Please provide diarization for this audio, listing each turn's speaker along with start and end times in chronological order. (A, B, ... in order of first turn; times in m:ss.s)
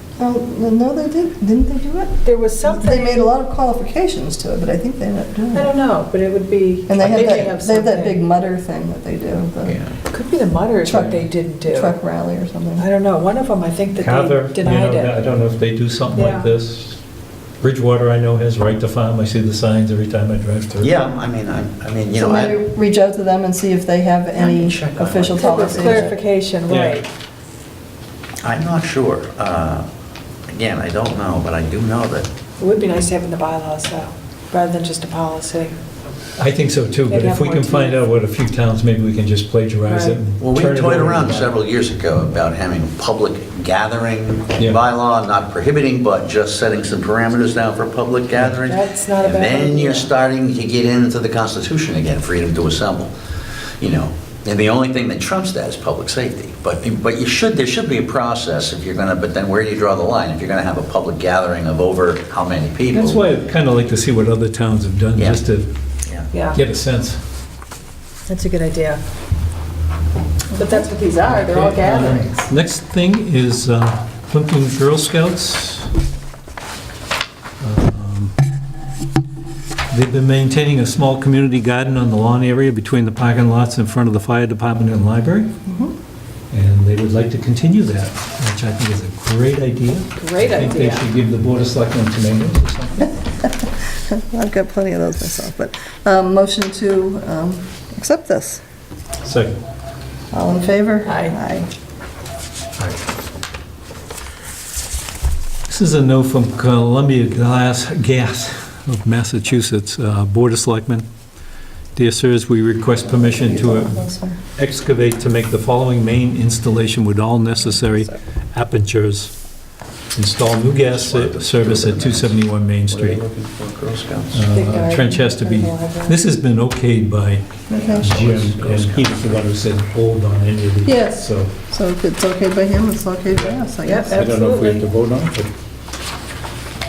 0:00.2-0:05.8 A
0:02.2-0:03.2 B
0:05.5-0:08.2 B
0:06.9-0:09.8 A
0:09.6-0:10.0 C
0:10.1-0:12.0 B
0:10.8-0:12.9 A
0:12.8-0:15.2 B
0:14.0-0:17.0 D
0:16.2-0:16.5 B
0:17.6-0:20.9 D
0:20.8-0:22.6 C
0:22.1-0:26.2 A
0:24.4-0:26.1 C
0:25.4-0:27.1 B
0:26.7-0:27.0 D
0:28.4-0:29.9 C
0:30.5-0:32.3 C
0:32.6-0:35.8 B
0:36.4-0:41.5 D
0:37.1-0:38.0 B
0:39.9-0:40.2 B
0:40.4-0:53.1 C
0:48.6-0:50.1 B
0:53.8-1:03.2 C
1:02.9-1:05.7 D
1:06.3-1:06.6 B
1:06.5-1:07.2 D
1:08.3-1:09.0 B
1:10.5-1:12.5 B
1:11.3-1:15.9 D
1:17.6-1:18.3 D
1:19.9-1:25.5 D
1:25.7-1:25.9 A
1:26.5-1:33.2 D
1:30.2-1:31.1 B
1:33.4-1:38.6 A
1:39.2-1:39.6 D
1:40.3-1:41.7 A
1:41.0-1:41.4 B
1:45.7-1:51.1 D
1:52.0-1:54.0 D
1:53.0-1:54.4 A
1:54.6-1:59.3 D
2:00.1-2:03.2 D
2:00.8-2:02.4 C
2:02.9-2:04.4 C
2:04.3-2:11.5 D
2:04.5-2:06.2 B
2:07.7-2:08.1 A
2:07.7-2:09.2 C
2:10.8-2:14.2 A
2:13.8-2:14.8 B
2:14.1-2:15.5 D